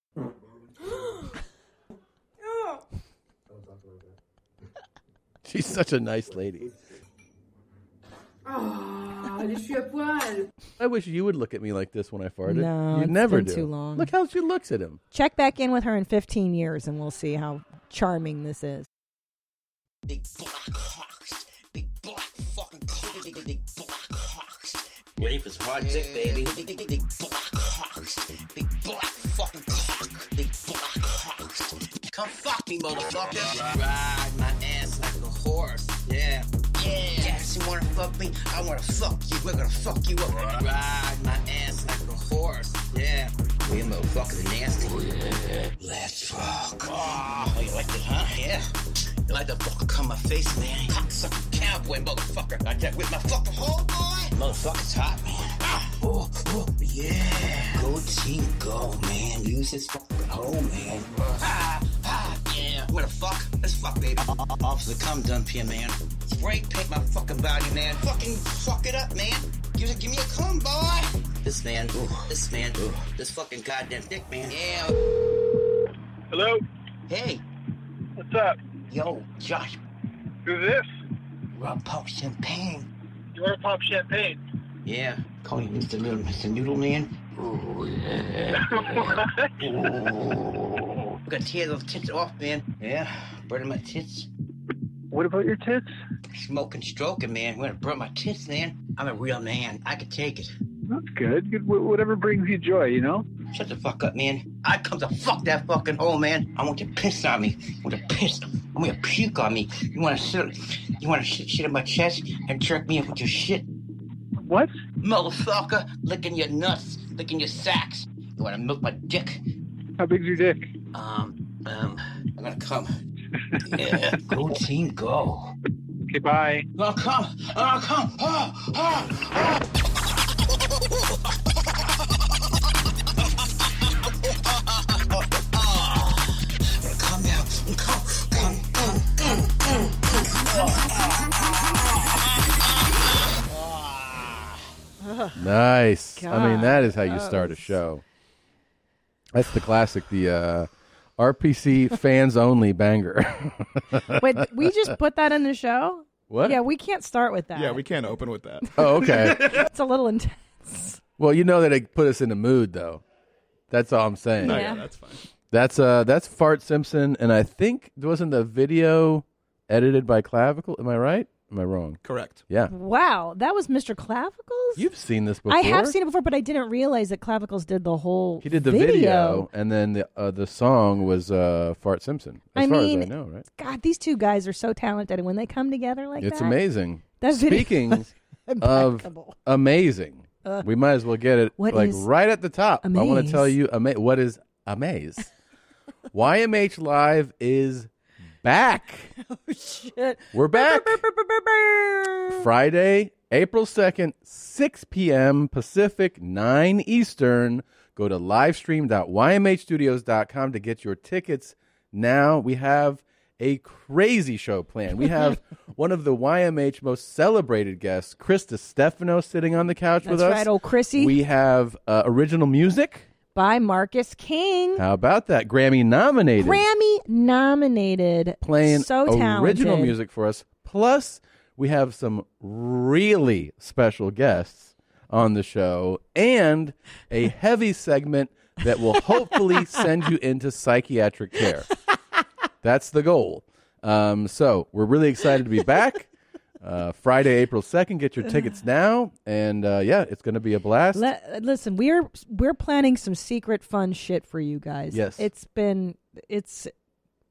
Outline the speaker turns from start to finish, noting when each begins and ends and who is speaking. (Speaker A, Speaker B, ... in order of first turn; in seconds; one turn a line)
Speaker A: 2.5-2.8
Speaker B: 5.5-6.7
Speaker A: 8.5-10.5
Speaker B: 10.8-15.0
Speaker C: 12.5-14.1
Speaker C: 15.1-18.9
Speaker D: 20.1-48.7
Speaker D: 49.3-74.9
Speaker E: 76.3-76.6
Speaker D: 77.1-77.4
Speaker E: 78.2-78.6
Speaker D: 78.9-79.8
Speaker E: 80.5-80.9
Speaker D: 81.5-82.9
Speaker E: 83.3-84.4
Speaker D: 84.8-89.1
Speaker E: 88.7-89.5
Speaker D: 89.6-94.3
Speaker E: 95.1-95.9
Speaker D: 96.3-100.5
Speaker E: 100.9-103.2
Speaker D: 103.5-113.7
Speaker E: 114.4-114.7
Speaker D: 115.0-119.4
Speaker E: 120.0-120.7
Speaker D: 120.9-122.9
Speaker D: 123.7-125.5
Speaker E: 126.1-126.7
Speaker D: 126.8-129.6
Speaker D: 133.8-144.5
Speaker C: 145.0-145.4
Speaker B: 145.4-148.0
Speaker C: 146.2-147.7
Speaker B: 149.3-154.7
Speaker C: 154.2-157.8
Speaker B: 156.3-156.6
Speaker F: 157.6-159.7
Speaker B: 158.8-159.5
Speaker C: 159.4-161.0
Speaker B: 161.2-163.0
Speaker B: 163.7-164.6
Speaker F: 164.4-165.2
Speaker C: 164.4-164.9
Speaker B: 165.5-172.7
Speaker F: 172.0-172.4
Speaker C: 172.7-174.9
Speaker B: 174.8-175.9
Speaker C: 175.5-179.5
Speaker B: 178.4-183.5
Speaker C: 182.6-186.6
Speaker B: 186.2-188.1
Speaker C: 187.2-189.3
Speaker B: 188.6-195.3
Speaker C: 191.6-192.1
Speaker C: 192.8-193.5
Speaker B: 196.1-197.9
Speaker B: 198.4-199.1
Speaker C: 199.3-202.5
Speaker B: 200.3-201.0
Speaker B: 202.3-223.1
Speaker C: 220.0-221.2
Speaker C: 223.3-224.8
Speaker B: 224.8-226.6
Speaker C: 226.4-229.9
Speaker B: 228.4-241.7
Speaker B: 242.6-246.1
Speaker B: 246.6-251.1
Speaker C: 250.9-256.7
Speaker B: 254.9-255.3